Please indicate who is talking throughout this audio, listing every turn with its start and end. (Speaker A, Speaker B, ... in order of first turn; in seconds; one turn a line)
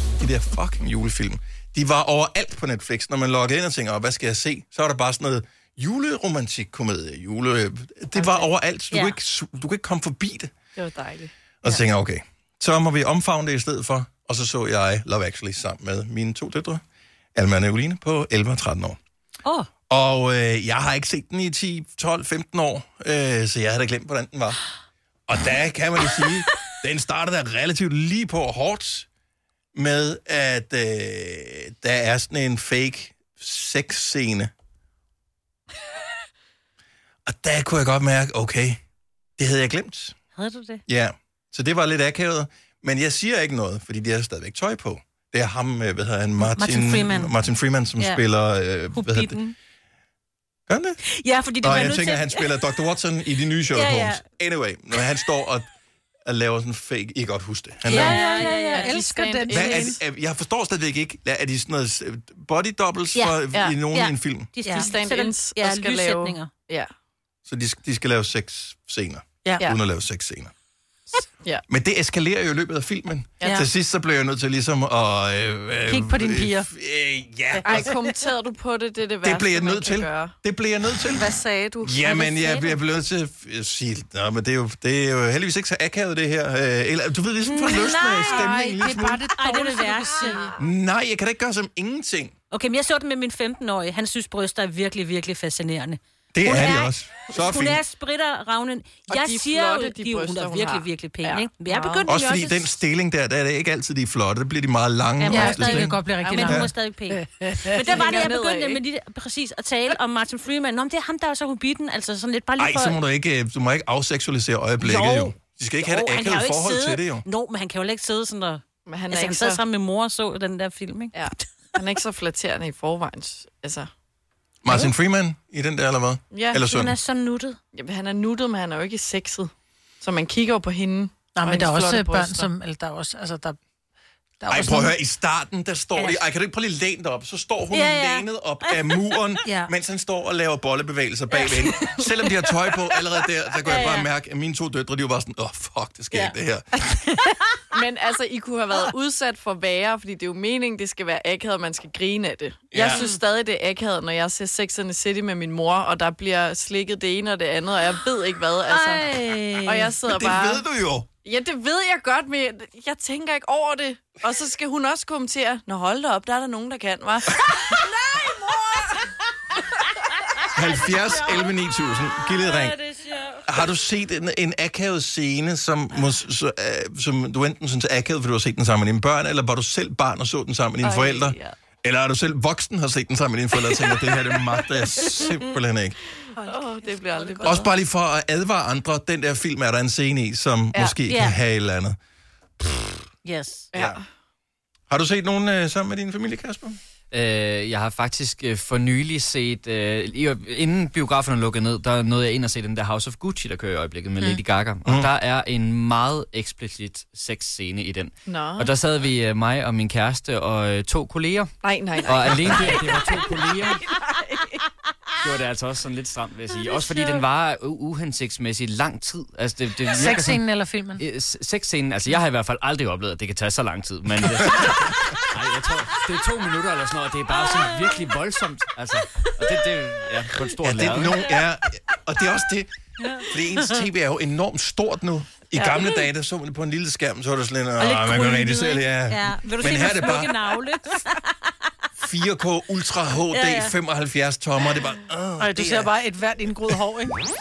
Speaker A: 0.2-10.5
Speaker B: 8.2-8.5
Speaker B: 10.8-11.3
Speaker A: 11.6-16.8
Speaker A: 17.4-19.0
Speaker A: 19.9-24.6
Speaker A: 25.3-29.1
Speaker A: 29.8-34.5
Speaker A: 37.3-38.8
Speaker A: 39.4-40.1
Speaker C: 40.4-40.8
Speaker A: 40.9-49.4
Speaker C: 46.4-47.3
Speaker C: 48.0-48.2
Speaker C: 48.9-49.5
Speaker A: 50.7-51.0
Speaker C: 51.1-52.9
Speaker A: 51.6-55.7
Speaker C: 53.7-54.2
Speaker A: 56.3-58.5
Speaker C: 57.9-59.7
Speaker D: 57.9-60.0
Speaker B: 58.3-60.0
Speaker A: 59.5-64.5
Speaker C: 63.1-66.5
Speaker B: 63.5-63.8
Speaker B: 64.7-66.9
Speaker A: 67.5-70.5
Speaker A: 71.7-77.9
Speaker D: 75.9-76.7
Speaker B: 77.7-80.3
Speaker A: 79.2-89.3
Speaker B: 81.2-82.8
Speaker C: 87.5-90.6
Speaker D: 87.8-90.4
Speaker A: 90.6-92.3
Speaker C: 92.5-102.2
Speaker A: 96.3-97.8
Speaker B: 99.1-102.7
Speaker A: 102.1-106.7
Speaker C: 105.2-113.0
Speaker D: 105.3-107.8
Speaker B: 107.8-108.8
Speaker A: 112.6-117.2
Speaker C: 114.8-121.5
Speaker B: 118.9-119.6
Speaker B: 121.1-123.9
Speaker A: 124.6-127.0
Speaker B: 126.3-126.6
Speaker C: 126.7-127.6
Speaker B: 127.7-129.5
Speaker B: 130.0-132.5
Speaker D: 131.4-133.6
Speaker D: 134.4-134.9
Speaker A: 134.5-146.8
Speaker C: 136.0-136.2
Speaker C: 137.7-138.8
Speaker C: 139.4-139.7
Speaker C: 143.7-144.1
Speaker B: 147.7-160.6
Speaker A: 152.7-153.1
Speaker C: 158.7-159.9
Speaker A: 160.0-161.1
Speaker B: 161.2-167.8
Speaker C: 167.8-169.0
Speaker C: 170.3-173.4
Speaker A: 170.5-172.8
Speaker A: 173.4-186.0
Speaker B: 180.8-181.6
Speaker B: 185.0-185.3
Speaker B: 186.3-187.7
Speaker C: 186.4-187.6
Speaker A: 187.4-192.0
Speaker C: 191.1-191.4
Speaker A: 192.6-193.0
Speaker C: 193.2-193.7
Speaker B: 193.7-194.0
Speaker A: 194.9-196.8
Speaker E: 197.1-213.9
Speaker A: 204.8-205.1
Speaker B: 208.3-208.7
Speaker B: 211.6-213.2
Speaker B: 213.8-214.6
Speaker E: 215.2-220.4
Speaker B: 216.7-217.2
Speaker D: 220.0-221.0
Speaker E: 221.0-231.2
Speaker A: 230.6-232.7
Speaker C: 233.0-233.8
Speaker A: 233.2-240.6
Speaker B: 235.6-235.9
Speaker C: 237.8-241.3
Speaker A: 242.0-245.9
Speaker C: 243.3-243.7
Speaker D: 245.4-247.2